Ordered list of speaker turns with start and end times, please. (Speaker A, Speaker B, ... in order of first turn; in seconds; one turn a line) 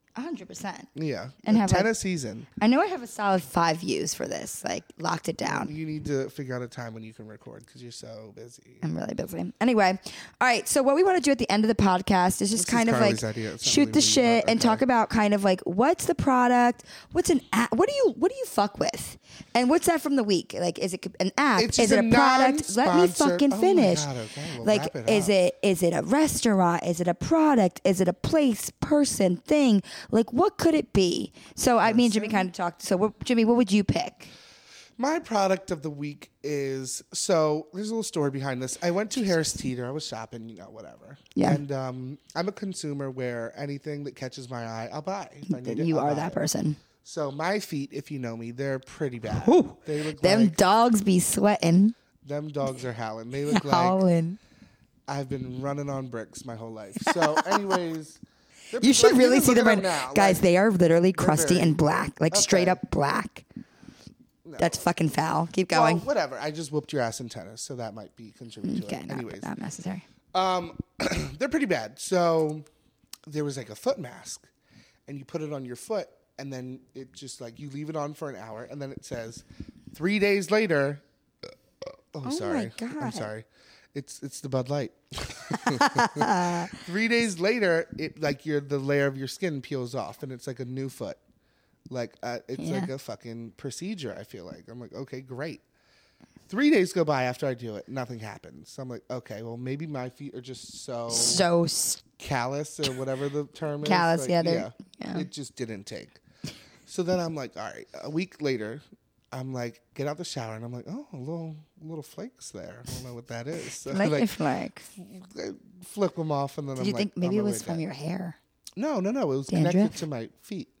Speaker A: 0.1-0.9
Speaker B: 0.9-2.5
Speaker A: 1.4-1.9
Speaker A: 2.6-5.7
Speaker B: 5.5-8.8
Speaker A: 8.8-24.1
Speaker B: 12.5-14.8
Speaker B: 21.6-25.3
Speaker A: 24.6-34.3
Speaker B: 31.8-32.5
Speaker B: 35.0-46.4
Speaker A: 41.3-41.6
Speaker A: 45.5-46.8
Speaker B: 47.0-50.5
Speaker A: 49.3-51.9
Speaker B: 52.2-54.0
Speaker A: 53.5-54.4
Speaker B: 55.1-58.2
Speaker A: 57.0-57.8
Speaker B: 58.7-60.4
Speaker A: 58.8-63.4
Speaker B: 61.1-63.2
Speaker B: 64.4-64.8
Speaker A: 64.6-66.0
Speaker B: 65.7-69.5
Speaker A: 68.6-70.0
Speaker B: 70.3-72.6
Speaker B: 73.3-74.5
Speaker B: 75.1-81.0
Speaker B: 82.1-91.2
Speaker A: 82.2-83.3
Speaker A: 85.5-86.7
Speaker B: 91.9-95.6
Speaker A: 92.6-92.9
Speaker B: 96.5-101.5
Speaker A: 101.1-102.0
Speaker B: 102.2-106.2
Speaker A: 103.8-105.3
Speaker B: 106.9-108.8
Speaker B: 109.3-114.3
Speaker A: 113.8-114.8
Speaker B: 114.9-117.8
Speaker A: 116.8-118.4
Speaker B: 118.8-120.7
Speaker A: 119.5-120.0